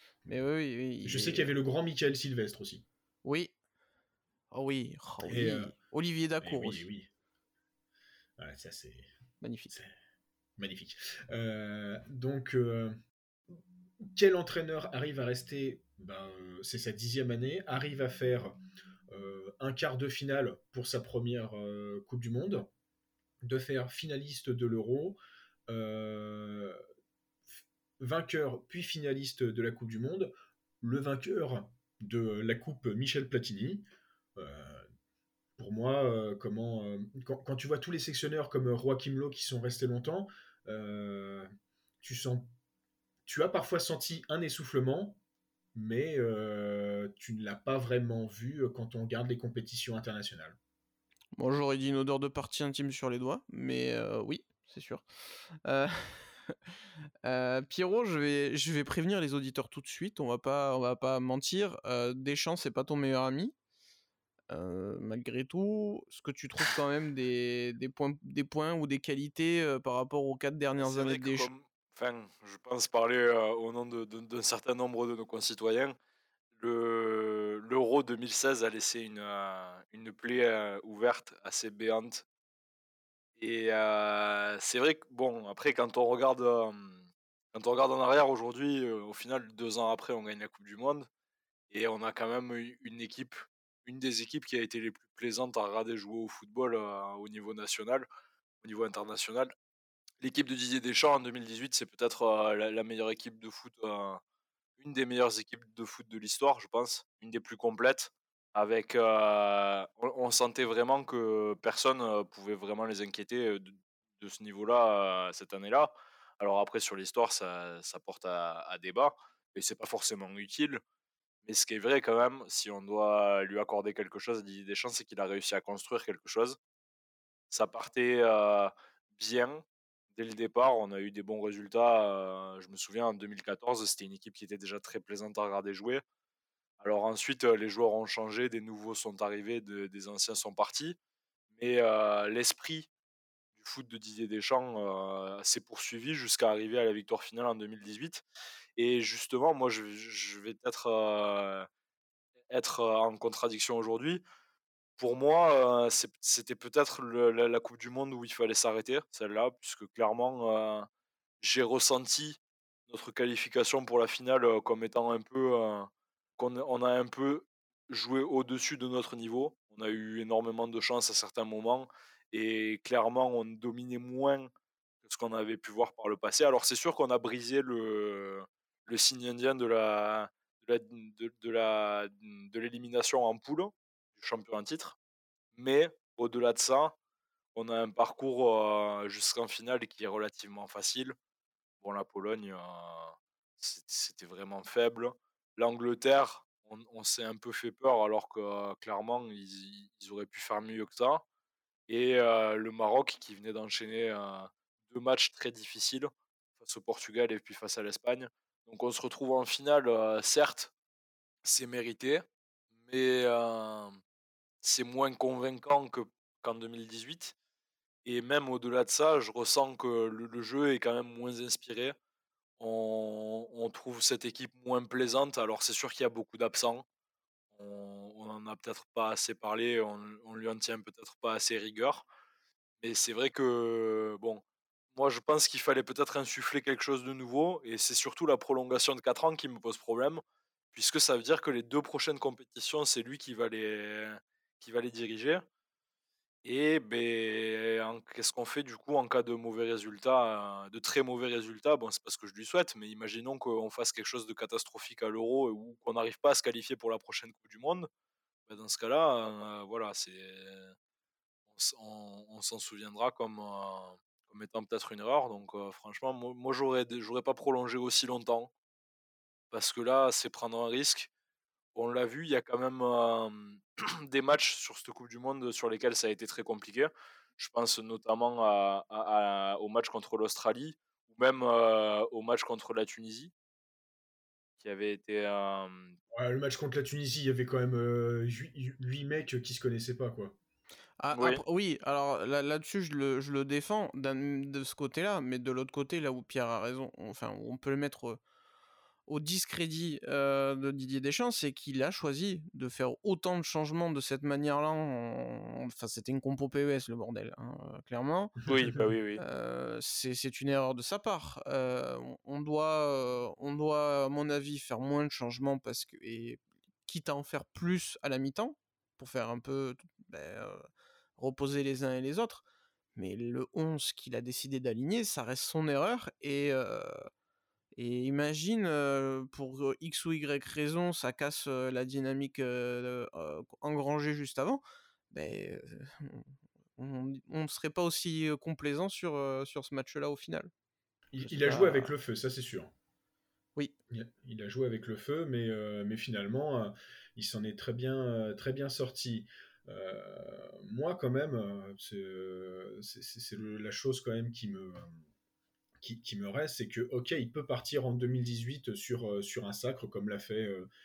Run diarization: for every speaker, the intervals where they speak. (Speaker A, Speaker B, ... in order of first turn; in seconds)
Speaker A: 0.2-1.5, 3.2-3.5, 4.5-6.8, 9.4-9.8, 51.4-55.0, 55.6-56.5, 57.2-63.5, 64.5-71.5, 291.0-298.2, 299.1-308.4, 309.2-320.6, 321.2-322.4, 322.9-326.9, 327.8-340.5, 341.2-341.9
Speaker B: 1.0-2.8, 5.2-5.7, 6.4-7.1, 8.4-9.1, 10.6-12.9, 14.0-18.6, 19.1-22.7, 23.4-26.8, 28.0-33.8, 34.4-34.9, 35.6-41.5, 42.0-42.5, 43.3-45.2, 45.8-50.6, 286.1-290.4, 341.1-342.7, 343.9-355.0, 355.8-360.7
Speaker C: 70.8-76.0, 76.6-82.2, 83.4-91.1, 91.7-98.0, 98.6-99.5, 100.2-104.2, 104.8-120.8, 121.4-126.6, 127.5-129.6, 130.1-136.0, 136.8-141.0, 141.5-142.9, 143.6-148.2, 148.8-151.7, 152.5-154.2, 155.0-160.9, 161.4-174.5, 175.0-184.9, 185.5-186.9, 187.5-191.2, 191.8-201.2, 201.9-210.7, 211.4-212.2, 212.8-214.0, 214.6-217.3, 218.0-221.9, 222.6-226.8, 227.5-232.1, 232.8-234.4, 234.9-240.2, 240.7-245.4, 246.4-257.9, 258.5-260.7, 261.5-268.5, 269.5-271.1, 271.8-283.3, 284.6-286.0, 291.1-291.4, 308.4-309.2